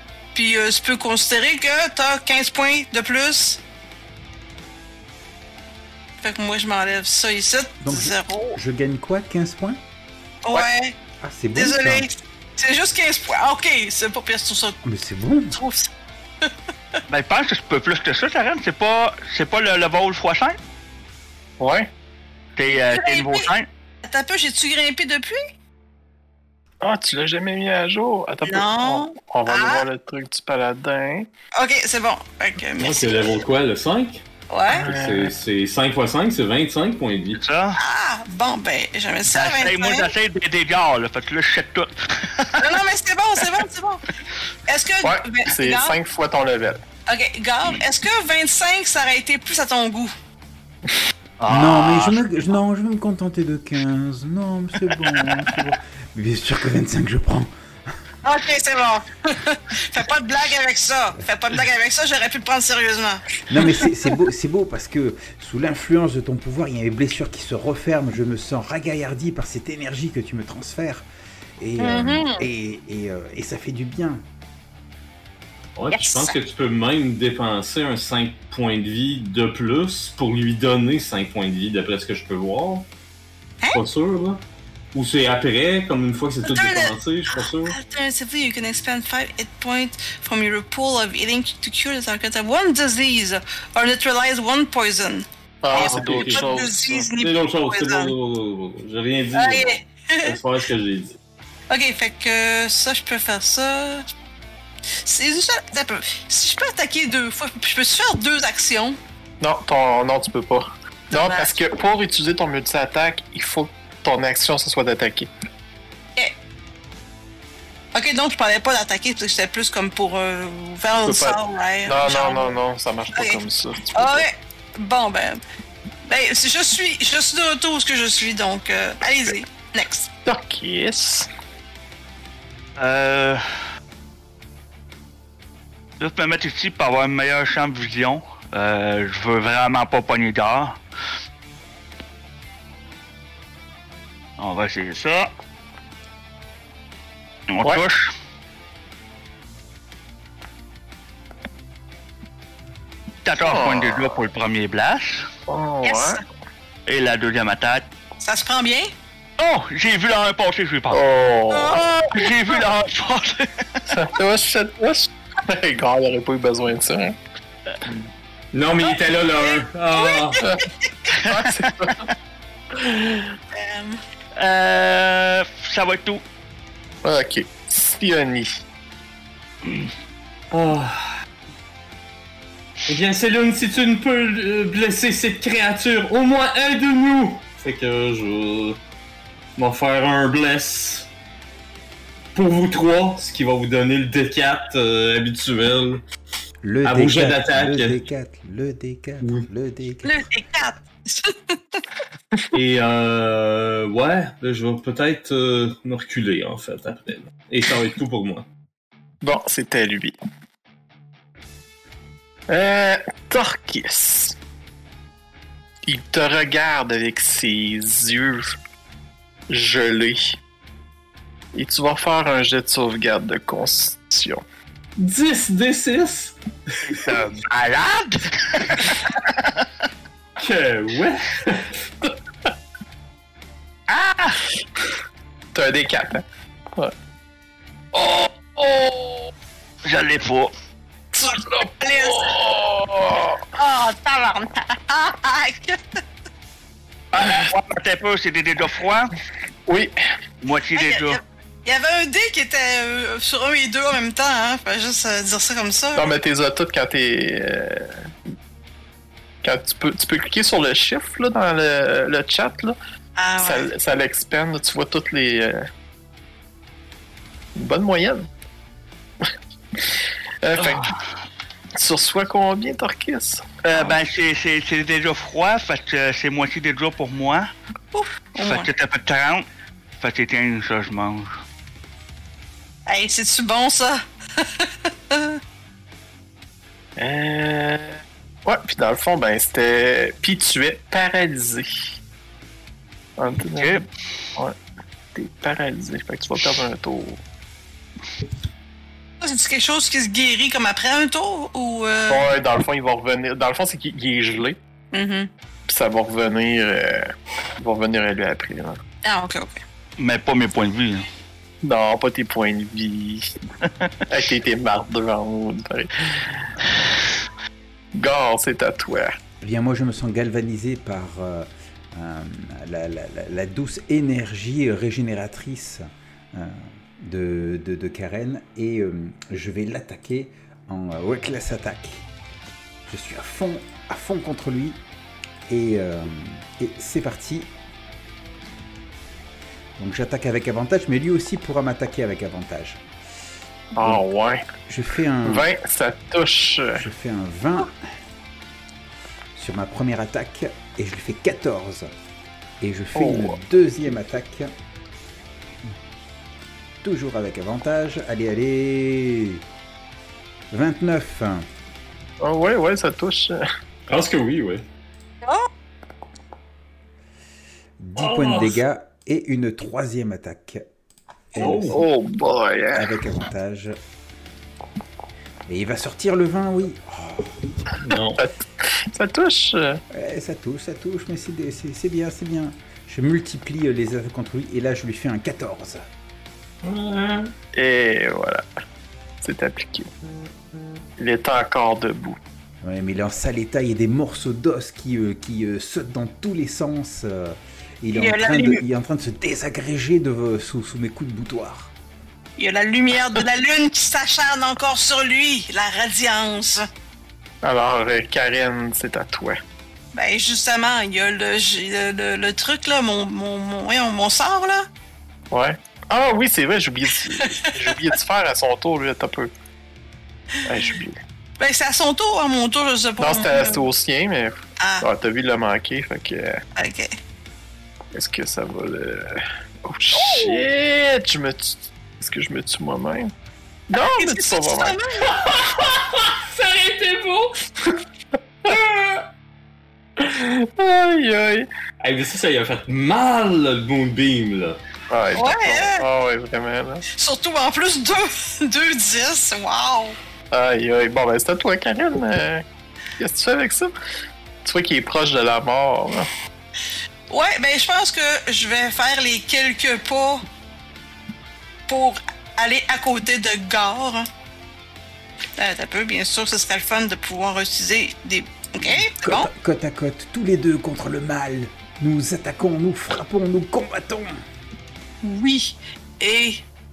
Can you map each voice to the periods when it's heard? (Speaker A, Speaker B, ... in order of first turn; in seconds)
Speaker A: 0.3-3.6, 6.2-8.6, 10.4-10.9, 11.5-14.8, 15.5-15.9, 22.9-23.5, 24.0-25.4, 28.4-29.9, 31.6-33.4, 34.5-34.9, 37.8-40.1, 42.6-44.0, 44.7-46.0, 47.1-50.1, 58.2-63.2, 71.8-72.5, 75.9-76.3, 86.4-98.1, 99.3-100.4, 101.7-104.0, 105.0-109.0, 111.1-111.5, 117.9-122.6, 123.1-123.4, 123.9-125.4, 126.0-130.1, 155.8-156.2, 158.2-158.9, 161.5-162.5, 168.9-170.6, 173.5-174.0, 200.0-201.8, 241.8-242.3, 243.6-246.0, 250.7-256.1, 263.2-263.7, 277.9-278.7, 282.9-285.4, 299.2-302.3, 304.9-305.3, 309.0-309.6, 365.2-365.5, 397.9-398.6, 402.4-406.6, 409.9-414.7, 417.2-417.5, 421.4-423.6, 424.6-424.9, 426.6-426.9, 429.9-430.4, 433.8-435.2, 445.1-445.9, 446.9-450.0, 457.1-460.2, 461.7-464.1, 465.4-469.3, 475.0-476.4
Speaker B: 7.8-9.8, 11.2-12.1, 14.8-15.6, 51.5-57.5, 63.5-71.0, 71.6-74.2, 196.6-200.2, 319.4-332.1, 332.9-334.8, 335.5-337.5, 339.8-342.8, 344.7-345.4, 346.7-347.8, 349.3-351.9, 352.6-354.5, 356.8-359.4, 360.5-361.5, 367.8-370.6, 371.3-371.8, 372.7-373.8, 375.5-377.4, 379.9-385.9, 392.6-401.7, 468.8-474.2
Speaker C: 17.1-20.6, 22.6-23.7, 37.4-37.8, 39.3-42.8, 51.4-52.2, 132.8-133.4, 136.0-140.8, 144.4-145.3, 147.5-148.1, 153.2-155.3, 156.8-157.8, 159.4-161.0, 162.1-163.9, 171.1-172.1, 174.3-176.2, 226.8-229.6, 233.9-234.4, 239.8-240.5, 247.1-249.1, 250.4-251.2, 273.6-277.5, 278.4-279.4, 280.0-281.3, 293.6-293.9, 310.0-311.1
Speaker D: 21.6-21.9, 26.8-31.3, 34.7-35.3, 45.0-46.8, 95.6-97.1, 109.4-115.3, 121.0-124.2, 130.2-131.3, 153.4-154.2, 155.5-156.2, 160.9-161.9, 163.9-167.2, 171.2-172.1, 172.7-173.3, 177.0-178.5, 209.2-210.2, 212.5-214.3, 215.8-218.6, 219.5-220.4, 221.5-224.4, 235.5-236.2, 237.9-239.3, 241.1-243.4, 247.2-247.5, 249.7-249.9, 255.9-258.1, 259.4-262.8, 263.4-265.6, 267.6-268.3, 269.8-270.9, 271.8-273.9, 287.0-291.8, 293.2-293.8, 295.1-297.2, 302.1-304.6, 305.7-308.8, 311.6-313.3, 314.1-316.5, 317.9-319.2, 343.7-344.4, 345.2-346.8, 352.9-353.4, 362.2-363.4, 371.7-372.9, 378.1-379.8, 387.5-388.4, 389.2-389.9, 391.0-392.2, 407.4-409.4, 415.3-419.3, 420.4-421.0, 423.0-426.4, 427.9-433.1, 433.7-434.8, 440.0-441.5, 444.9-446.8, 450.3-452.4, 453.0-453.7, 454.4-456.1
Speaker E: 32.8-34.2, 34.8-37.4, 75.8-82.9, 83.7-84.4, 84.9-87.8, 95.7-96.5, 97.2-101.2, 168.5-170.4, 180.5-181.1, 182.9-188.8, 189.6-191.1, 192.3-196.0, 196.8-198.0, 199.2-199.5, 202.5-208.4, 225.0-227.0, 230.4-231.7, 363.9-364.6, 368.0-368.6, 371.4-371.8, 377.8-378.2, 386.6-387.3, 435.1-437.4, 438.4-439.1, 441.8-444.6